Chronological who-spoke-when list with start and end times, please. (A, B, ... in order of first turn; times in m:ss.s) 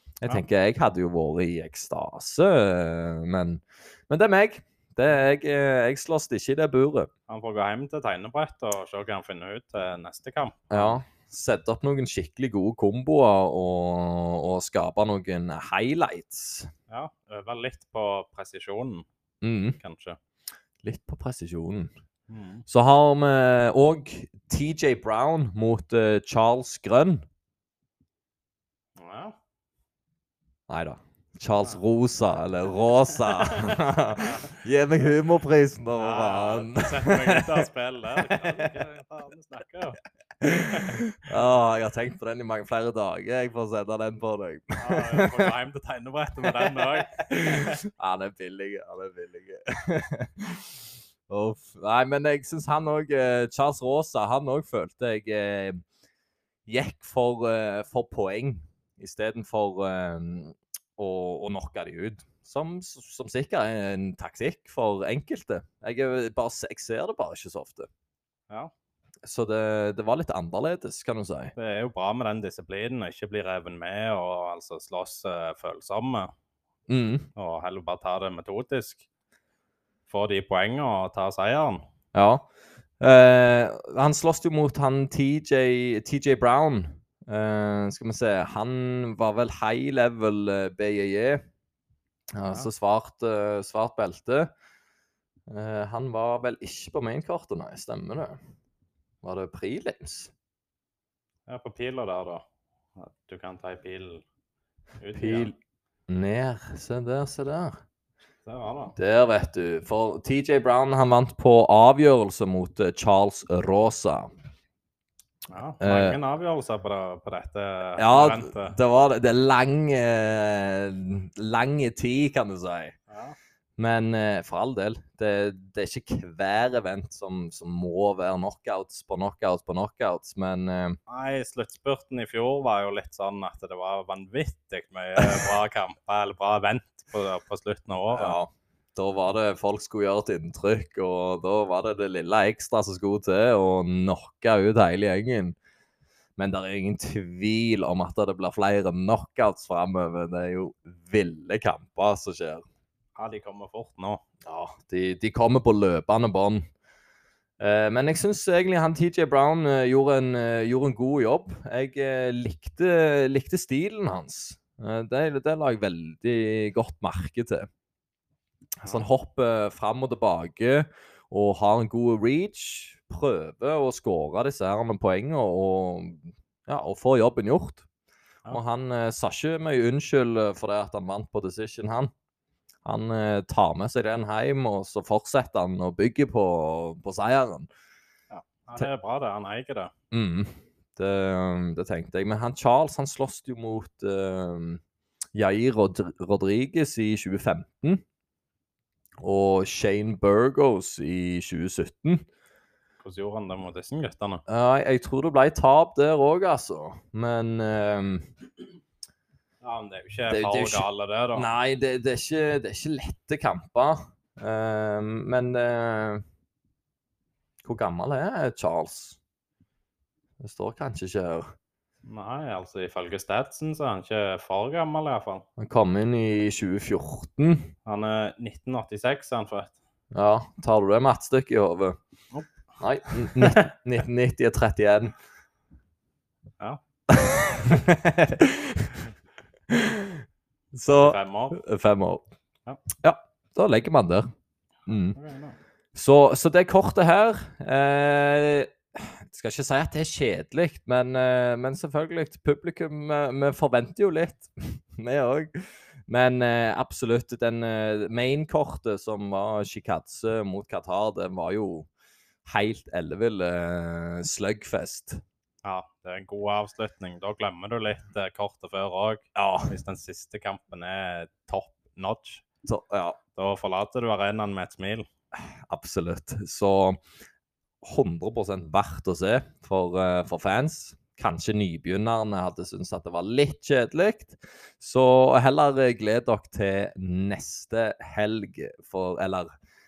0:00.2-0:07.1 A
0:07.3-0:11.0 B
0:10.7-0:16.7 A
0:16.9-0:19.0 B
0:19.4-0:19.8 A
0:19.8-0:20.2 B
0:20.8-0:21.9 A
0:22.3-0:22.6 B
0:22.7-0:27.2 A
0:29.0-0:29.4 B
0:30.7-0:37.6 A
0:33.2-0:34.4 B
0:36.0-0:40.0 B
0:38.2-0:38.7 A
0:40.4-0:45.5 A
0:44.8-0:47.8 B
0:46.4-0:55.8 A
0:56.7-1:07.9 A
1:09.2-1:11.5 A
1:11.6-1:16.3 B
1:16.9-1:17.3 A
1:17.4-1:19.0 B
1:20.1-1:21.8 B
1:22.1-1:22.4 A
1:23.0-1:31.4 A
1:32.4-1:34.5 A
1:35.5-1:38.4 A
1:39.2-1:40.3 A
1:41.5-1:42.4 B
1:43.0-1:44.2 B
1:45.0-1:45.5 B
1:45.1-1:45.6 A
1:46.1-1:47.8 A
1:48.4-1:48.9 B
1:49.0-1:54.3 A
1:55.5-1:58.8 B
1:55.8-1:56.2 A
1:58.0-2:03.0 A
2:03.1-2:03.4 B
2:03.8-2:11.0 A
2:11.1-2:18.4 B
2:18.1-2:25.6 A
2:26.4-2:32.6 A
2:33.2-2:34.2 B
2:34.4-2:36.7 A
2:37.6-2:47.7 A
2:48.8-2:57.8 A
2:58.5-3:02.1 A
3:02.8-3:07.7 A
3:08.3-3:09.9 B
3:10.1-3:14.8 A
3:15.3-3:18.0 A
3:19.2-3:22.2 A
3:23.0-3:24.4 B
3:24.5-3:28.3 A
3:29.6-3:31.5 B
3:30.3-3:36.2 A
3:37.6-3:39.2 A
3:40.4-3:41.5 A
3:42.0-3:45.4 B
3:45.6-3:47.7 A
3:47.8-3:49.7 B
3:50.1-3:52.0 A
3:52.8-3:55.1 A
3:57.1-3:59.0 A
3:59.7-4:00.2 A
4:00.7-4:02.2 A
4:01.0-4:01.6 B
4:03.0-4:04.3 A
4:04.8-4:05.2 A
4:05.1-4:05.6 B
4:05.9-4:21.9 A
4:22.4-4:25.2 A
4:25.6-4:32.4 B
4:29.3-4:29.8 A
4:32.6-4:33.2 A
4:33.4-4:35.0 B
4:35.7-4:37.0 A
4:37.8-4:49.5 A